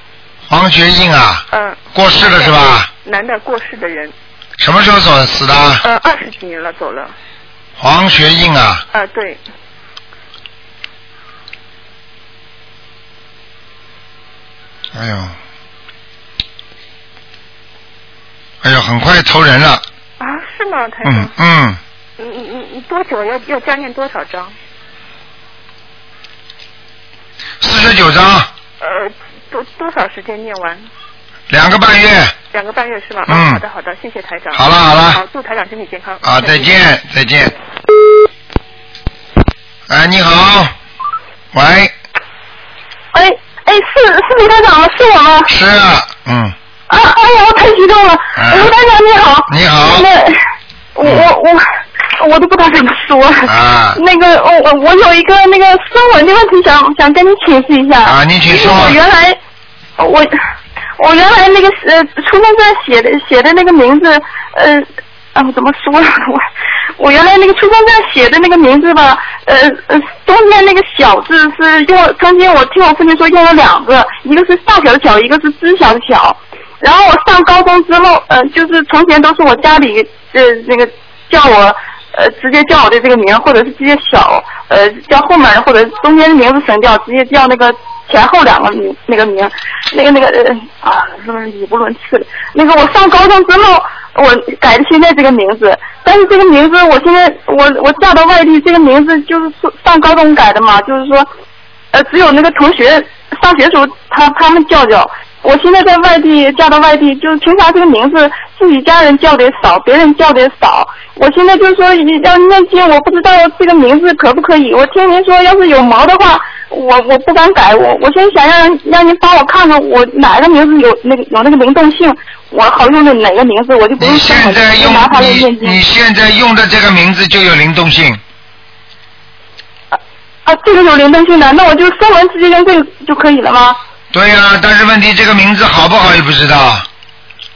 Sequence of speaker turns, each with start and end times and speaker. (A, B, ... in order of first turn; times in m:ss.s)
0:00.5-0:02.9 A
0:01.5-0:04.1 B
0:04.6-0:05.8 A
0:05.8-0:07.1 B
0:07.8-0:08.8 A
0:08.9-0:09.4 B
0:14.9-0:15.3 A
0:18.6-0:19.8 A
0:20.2-0:21.3 B
0:21.0-0:21.8 A
0:22.2-0:24.5 B
0:27.6-0:28.5 A
0:28.8-0:30.8 B
0:31.5-0:32.3 A
0:32.5-0:36.7 B
0:33.3-0:33.6 A
0:34.5-0:35.2 A
0:36.2-0:37.5 A
0:39.9-0:40.7 A
0:41.5-0:41.9 A
0:43.1-0:45.5 C
0:45.5-0:46.5 A
0:46.9-0:50.3 C
0:48.4-0:48.7 A
0:49.5-0:50.1 A
0:51.0-0:51.6 C
0:51.0-0:51.3 A
0:52.2-0:59.4 C
0:53.4-0:54.0 A
0:58.0-0:59.0 A
1:00.0-1:00.3 C
1:01.0-1:06.4 C
1:07.0-1:41.3 C
1:41.9-2:05.8 C
2:04.0-2:08.2 A
2:09.9-2:13.8 C
2:14.1-2:16.9 A